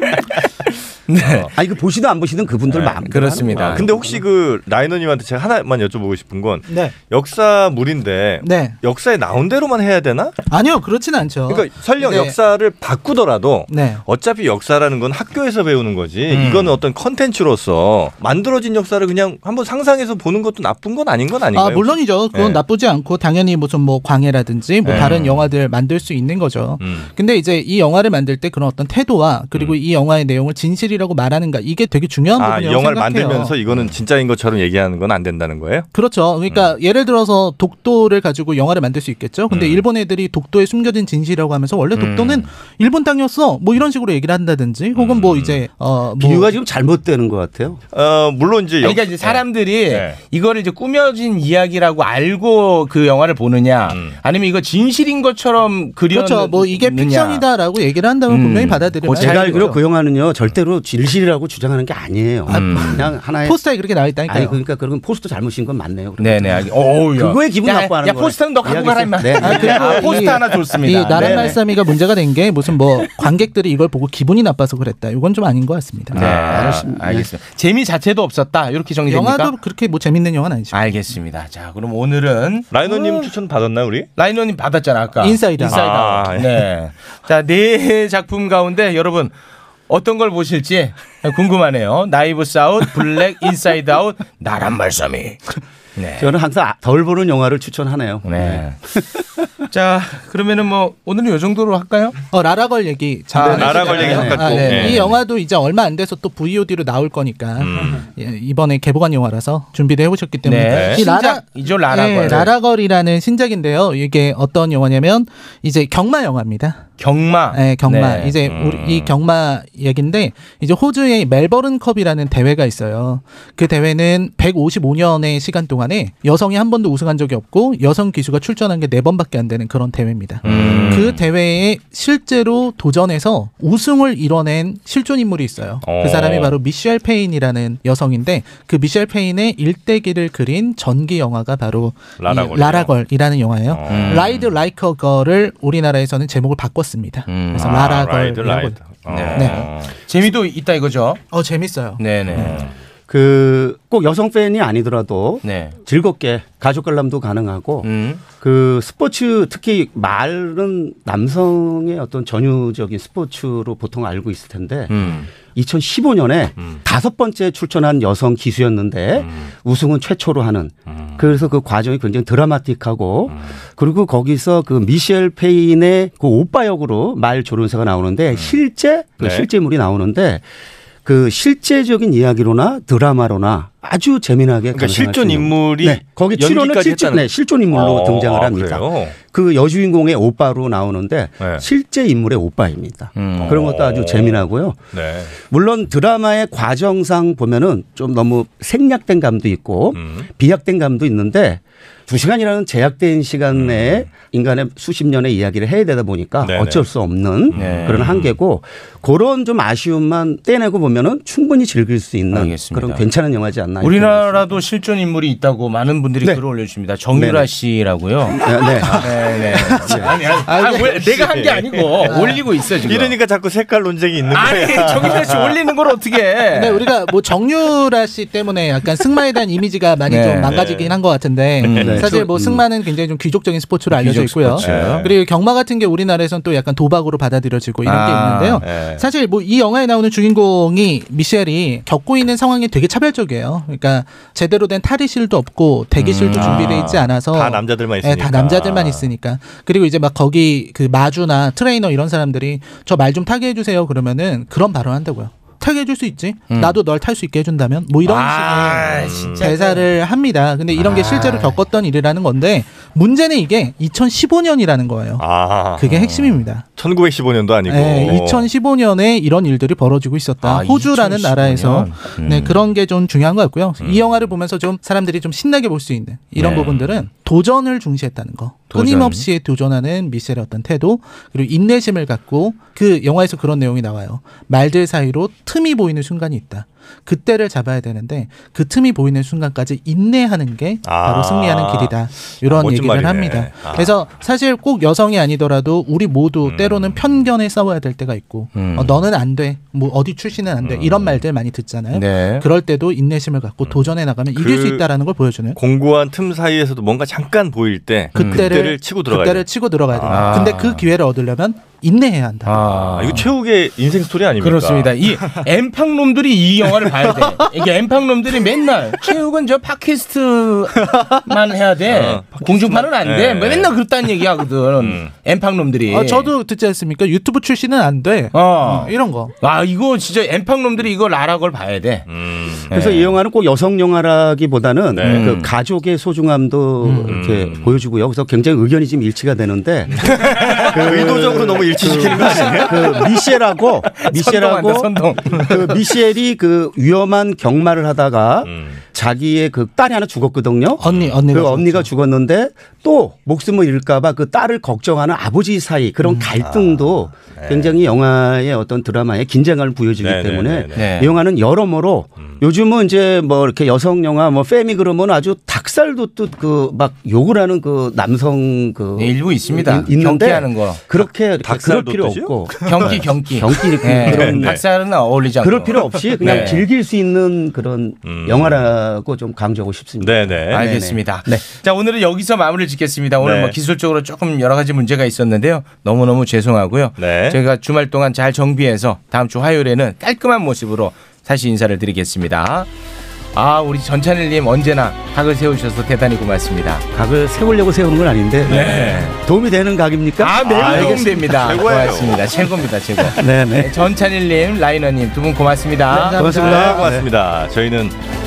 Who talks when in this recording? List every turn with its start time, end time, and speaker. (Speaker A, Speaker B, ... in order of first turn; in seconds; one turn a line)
Speaker A: 1.1-1.5
Speaker B: 1.2-1.5
Speaker C: 1.5-4.2
Speaker A: 3.0-3.8
Speaker B: 3.5-10.3
Speaker D: 6.7-7.0
Speaker D: 8.4-8.8
Speaker D: 10.5-12.4
Speaker B: 11.5-22.6
Speaker D: 13.7-14.0
Speaker A: 16.3-16.8
Speaker D: 21.5-33.5
Speaker B: 24.8-25.5
Speaker B: 26.8-27.1
Speaker B: 32.4-35.9
Speaker D: 35.9-46.5
Speaker B: 39.5-39.8
Speaker A: 41.9-42.5
Speaker B: 44.9-45.6
Speaker C: 46.2-47.8
Speaker B: 47.9-50.2
Speaker A: 48.8-57.4
Speaker B: 53.9-54.2
Speaker D: 56.1-59.8
Speaker A: 58.3-59.8
Speaker C: 59.2-63.6
Speaker A: 62.5-63.1
Speaker D: 62.5-64.6
Speaker C: 64.2-71.6
Speaker A: 66.2-71.6
Speaker D: 69.3-76.1
Speaker C: 76.1-77.3
Speaker A: 76.1-79.5
Speaker D: 79.1-80.8
Speaker A: 80.7-83.3
Speaker B: 82.7-84.1
Speaker A: 84.2-89.3
Speaker D: 85.2-86.0
Speaker B: 85.7-86.6
Speaker A: 89.9-96.3
Speaker C: 96.2-99.0
Speaker A: 98.2-98.8
Speaker A: 99.7-102.2
Speaker D: 102.3-116.9
Speaker A: 103.3-105.2
Speaker C: 103.4-104.7
Speaker B: 103.4-105.1
Speaker B: 107.6-108.0
Speaker A: 110.4-112.5
Speaker B: 110.7-111.0
Speaker A: 117.0-118.6
Speaker D: 117.5-149.6
Speaker B: 118.5-119.1
Speaker A: 130.4-131.2
Speaker B: 130.4-131.1
Speaker B: 135.8-136.5
Speaker B: 142.2-142.9
Speaker B: 143.7-144.3
Speaker A: 143.8-144.4
Speaker A: 147.2-147.8
Speaker B: 147.6-149.9
Speaker A: 149.0-151.2
Speaker D: 151.3-152.5
Speaker A: 152.0-152.6
Speaker B: 152.3-152.7
Speaker C: 153.1-180.4
Speaker A: 155.4-155.8
Speaker A: 157.8-158.2
Speaker A: 164.9-165.3
Speaker B: 169.2-169.5
Speaker B: 170.9-171.2
Speaker B: 179.2-179.5
Speaker C: 181.0-214.6
Speaker B: 184.7-189.2
Speaker B: 191.4-191.6
Speaker A: 193.1-193.7
Speaker B: 193.2-195.3
Speaker B: 199.9-200.3
Speaker B: 203.5-204.1
Speaker B: 206.4-206.8
Speaker B: 207.5-208.3
Speaker A: 207.6-208.1
Speaker A: 212.3-213.1
Speaker A: 213.8-223.1
Speaker C: 216.2-216.5
Speaker C: 217.1-217.5
Speaker C: 218.3-219.3
Speaker D: 219.5-221.1
Speaker C: 219.8-220.1
Speaker B: 221.2-225.6
Speaker D: 222.0-222.4
Speaker A: 224.3-226.9
Speaker D: 226.5-265.2
Speaker A: 230.1-230.8
Speaker B: 230.5-230.8
Speaker A: 231.6-232.1
Speaker B: 231.6-232.0
Speaker C: 231.8-232.6
Speaker A: 233.9-235.1
Speaker B: 234.6-235.1
Speaker A: 237.8-238.7
Speaker B: 238.6-239.1
Speaker A: 245.9-247.0
Speaker B: 246.3-249.0
Speaker A: 256.5-256.8
Speaker A: 258.0-259.9
Speaker B: 258.9-259.5
Speaker A: 260.7-261.6
Speaker B: 265.2-265.9
Speaker D: 265.8-266.7
Speaker A: 265.8-266.4
Speaker B: 266.8-268.5
Speaker D: 267.7-305.6
Speaker A: 270.4-272.6
Speaker B: 273.8-274.3
Speaker A: 276.3-276.8
Speaker A: 278.7-279.3
Speaker B: 290.8-293.9
Speaker B: 296.4-297.2
Speaker A: 298.5-299.0
Speaker B: 300.6-301.2
Speaker A: 301.9-302.5
Speaker B: 303.6-304.9
Speaker B: 305.6-310.4
Speaker A: 308.1-308.6
Speaker D: 308.1-312.5
Speaker A: 310.0-310.8
Speaker A: 312.4-313.3
Speaker B: 312.7-315.0
Speaker A: 314.4-326.3
Speaker B: 321.9-323.8
Speaker B: 324.8-325.1
Speaker D: 325.9-329.3
Speaker A: 328.3-332.0
Speaker B: 332.1-332.7
Speaker A: 332.7-333.1
Speaker C: 332.7-374.8
Speaker B: 334.9-335.4
Speaker A: 335.0-335.5
Speaker D: 336.9-337.1
Speaker B: 337.1-337.7
Speaker B: 339.9-343.0
Speaker A: 340.1-340.6
Speaker A: 341.9-343.1
Speaker A: 343.9-345.8
Speaker B: 348.4-348.8
Speaker B: 350.8-351.3
Speaker D: 350.9-351.9
Speaker B: 356.4-357.7
Speaker B: 360.0-360.9
Speaker A: 360.7-361.1
Speaker A: 369.0-370.8
Speaker B: 371.4-373.3
Speaker A: 372.6-376.6
Speaker B: 374.0-374.6
Speaker C: 375.4-381.4
Speaker B: 375.7-376.6
Speaker B: 378.0-378.7
Speaker B: 380.0-380.7
Speaker A: 380.5-392.7
Speaker B: 383.2-383.6
Speaker B: 387.0-387.4
Speaker A: 393.3-396.8
Speaker C: 396.9-401.2
Speaker B: 398.5-399.0
Speaker A: 398.5-399.2
Speaker A: 400.2-406.8
Speaker B: 400.4-402.3
Speaker C: 403.1-403.8
Speaker D: 405.9-406.9
Speaker C: 406.2-407.0
Speaker B: 406.4-408.0